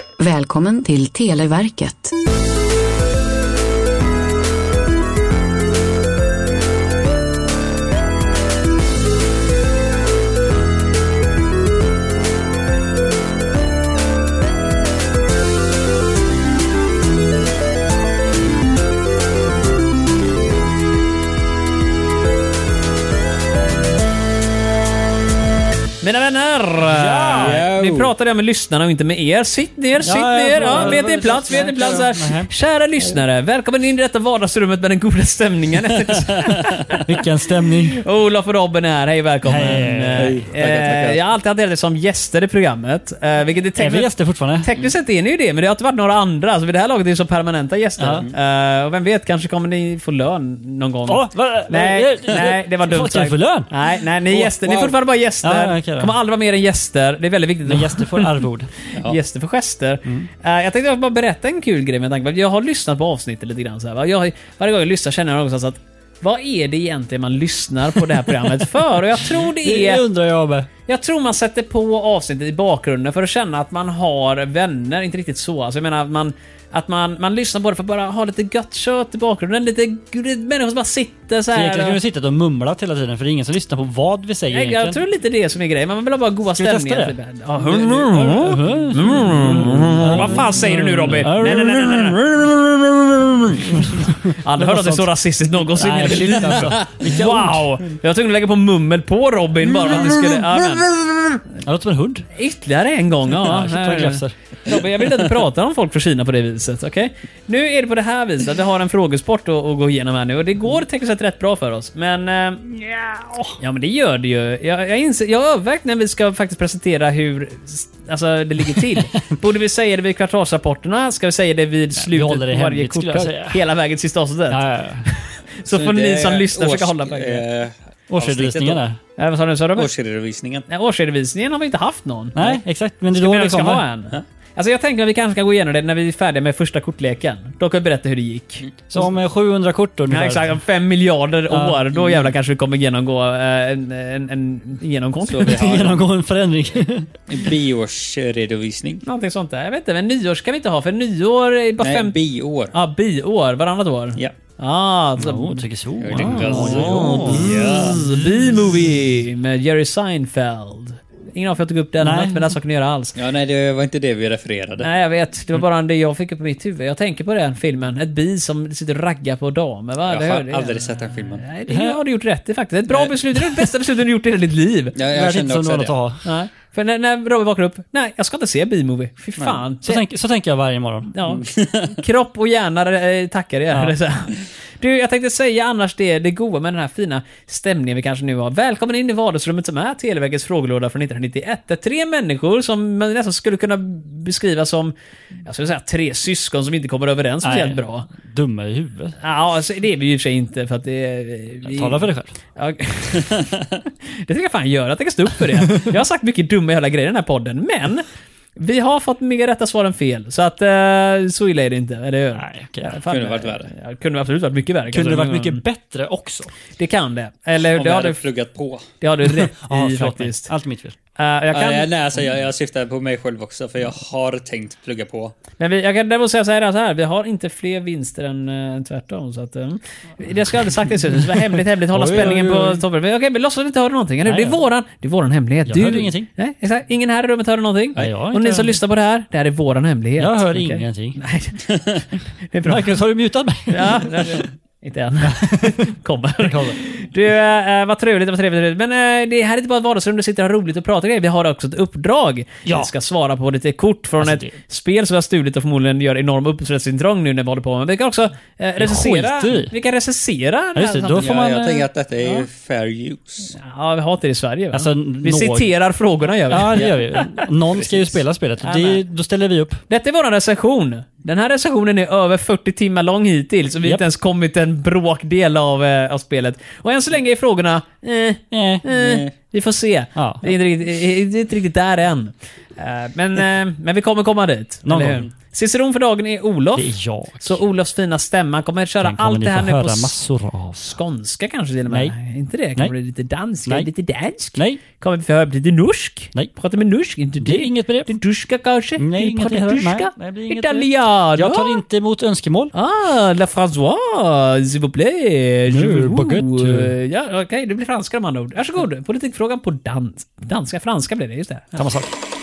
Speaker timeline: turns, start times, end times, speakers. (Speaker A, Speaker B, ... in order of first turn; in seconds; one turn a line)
Speaker A: 0.2-2.1
Speaker B: 26.0-37.2
Speaker C: 26.9-27.6
Speaker D: 27.3-28.1
Speaker C: 30.0-32.5
Speaker D: 30.6-31.0
Speaker D: 36.1-37.0
Speaker C: 37.0-38.0
Speaker B: 37.9-70.0
Speaker C: 39.5-40.3
Speaker D: 40.1-41.2
Speaker C: 43.8-44.7
Speaker C: 48.0-48.3
Speaker C: 51.1-53.7
Speaker D: 54.3-55.0
Speaker C: 55.4-56.1
Speaker C: 57.6-58.7
Speaker C: 69.6-70.7
Speaker B: 70.9-82.0
Speaker C: 81.5-85.0
Speaker B: 84.5-92.2
Speaker C: 86.5-87.2
Speaker C: 87.7-95.1
Speaker D: 87.7-88.0
Speaker B: 93.7-101.4
Speaker C: 95.7-97.7
Speaker D: 96.3-96.9
Speaker D: 99.9-101.1
Speaker C: 101.6-102.3
Speaker B: 102.3-127.4
Speaker C: 103.3-104.3
Speaker C: 122.0-123.6
Speaker C: 124.5-125.1
Speaker D: 125.7-128.8
Speaker C: 128.1-129.0
Speaker B: 129.2-129.9
Speaker D: 129.7-130.7
Speaker B: 130.7-132.5
Speaker C: 132.3-133.8
Speaker B: 133.1-139.0
Speaker C: 138.9-140.6
Speaker B: 140.1-145.7
Speaker C: 141.5-141.8
Speaker D: 142.0-142.2
Speaker D: 145.2-146.1
Speaker C: 145.4-147.1
Speaker D: 147.3-149.0
Speaker B: 149.0-152.2
Speaker D: 151.8-152.7
Speaker B: 152.7-155.6
Speaker C: 155.2-157.9
Speaker D: 156.0-158.1
Speaker B: 156.2-163.2
Speaker C: 162.0-162.5
Speaker D: 163.1-164.9
Speaker B: 164.8-175.0
Speaker D: 170.0-171.4
Speaker C: 171.7-172.0
Speaker D: 172.9-173.1
Speaker D: 174.9-175.9
Speaker C: 175.1-176.2
Speaker B: 176.2-180.0
Speaker D: 179.4-179.6
Speaker C: 179.8-181.1
Speaker B: 181.1-194.9
Speaker D: 181.2-182.0
Speaker B: 195.4-198.1
Speaker C: 197.4-199.2
Speaker B: 199.2-203.6
Speaker C: 201.6-202.3
Speaker B: 204.2-208.0
Speaker B: 208.6-215.6
Speaker C: 212.3-212.9
Speaker D: 213.1-213.7
Speaker C: 214.9-216.5
Speaker B: 216.8-218.2
Speaker D: 217.7-218.8
Speaker B: 219.0-220.5
Speaker C: 219.2-220.9
Speaker B: 221.2-221.9
Speaker D: 221.5-225.3
Speaker B: 225.6-242.9
Speaker C: 231.9-232.8
Speaker C: 234.2-234.6
Speaker C: 235.7-236.3
Speaker C: 238.0-238.8
Speaker C: 240.2-241.2
Speaker C: 242.6-244.4
Speaker B: 243.7-261.4
Speaker C: 245.2-245.8
Speaker C: 246.4-246.8
Speaker C: 252.7-252.9
Speaker C: 254.2-254.6
Speaker C: 258.8-259.7
Speaker C: 260.8-261.8
Speaker D: 261.1-263.5
Speaker B: 263.6-266.9
Speaker C: 264.7-265.7
Speaker C: 266.5-269.8
Speaker D: 266.7-267.0
Speaker D: 267.7-268.2
Speaker B: 268.6-269.0
Speaker B: 269.9-290.1
Speaker C: 278.5-278.9
Speaker D: 278.9-279.3
Speaker C: 280.1-280.5
Speaker C: 284.9-285.2
Speaker C: 286.7-287.6
Speaker C: 289.0-290.9
Speaker B: 290.8-301.8
Speaker C: 291.9-292.1
Speaker C: 294.5-294.8
Speaker C: 297.4-298.1
Speaker C: 299.0-302.7
Speaker B: 302.7-311.8
Speaker C: 305.7-306.9
Speaker C: 311.7-312.1